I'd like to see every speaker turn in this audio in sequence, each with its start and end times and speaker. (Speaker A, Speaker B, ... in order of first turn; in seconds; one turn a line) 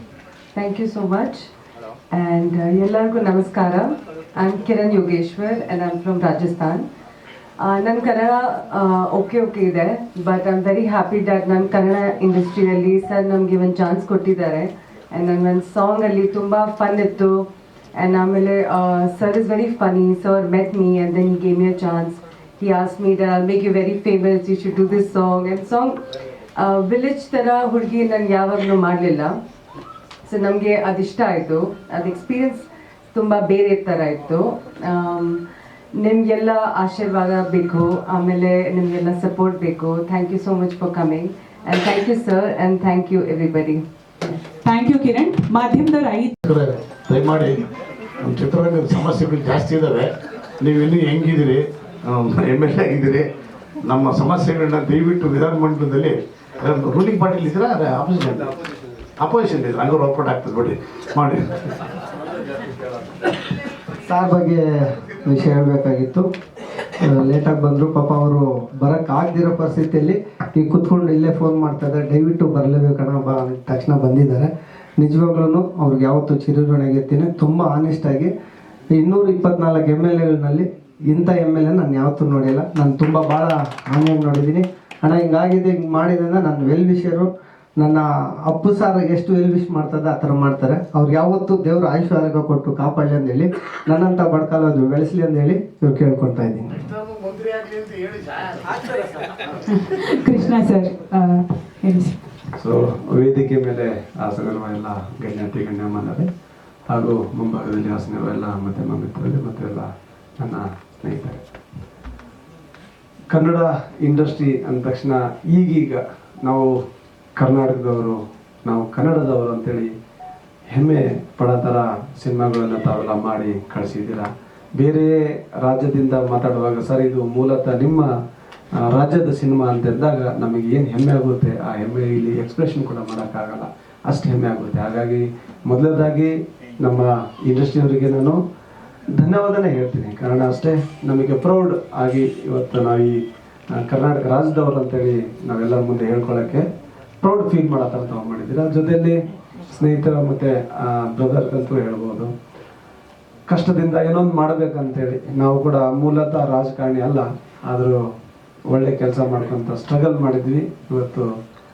Speaker A: 0.6-1.5
Speaker A: 2.1-6.8
Speaker A: 7.6-17.4
Speaker A: 18.0-26.0
Speaker A: 26.6-29.4
Speaker A: 30.3-35.4
Speaker A: 36.0-43.8
Speaker B: 44.6-46.4
Speaker C: 46.5-53.3
Speaker C: 53.9-58.5
Speaker C: 59.2-61.8
Speaker D: 64.0-66.3
Speaker D: 67.0-78.3
Speaker D: 78.9-96.8
Speaker C: 96.8-98.8
Speaker B: 99.7-102.2
Speaker E: 102.6-106.3
Speaker E: 106.9-109.9
Speaker E: 110.4-111.4
Speaker E: 113.3-116.8
Speaker E: 117.4-119.9
Speaker E: 120.7-128.1
Speaker E: 128.8-138.4
Speaker E: 139.2-143.2
Speaker E: 143.7-146.7
Speaker E: 147.2-152.3
Speaker E: 153.5-158.0
Speaker E: 158.7-161.3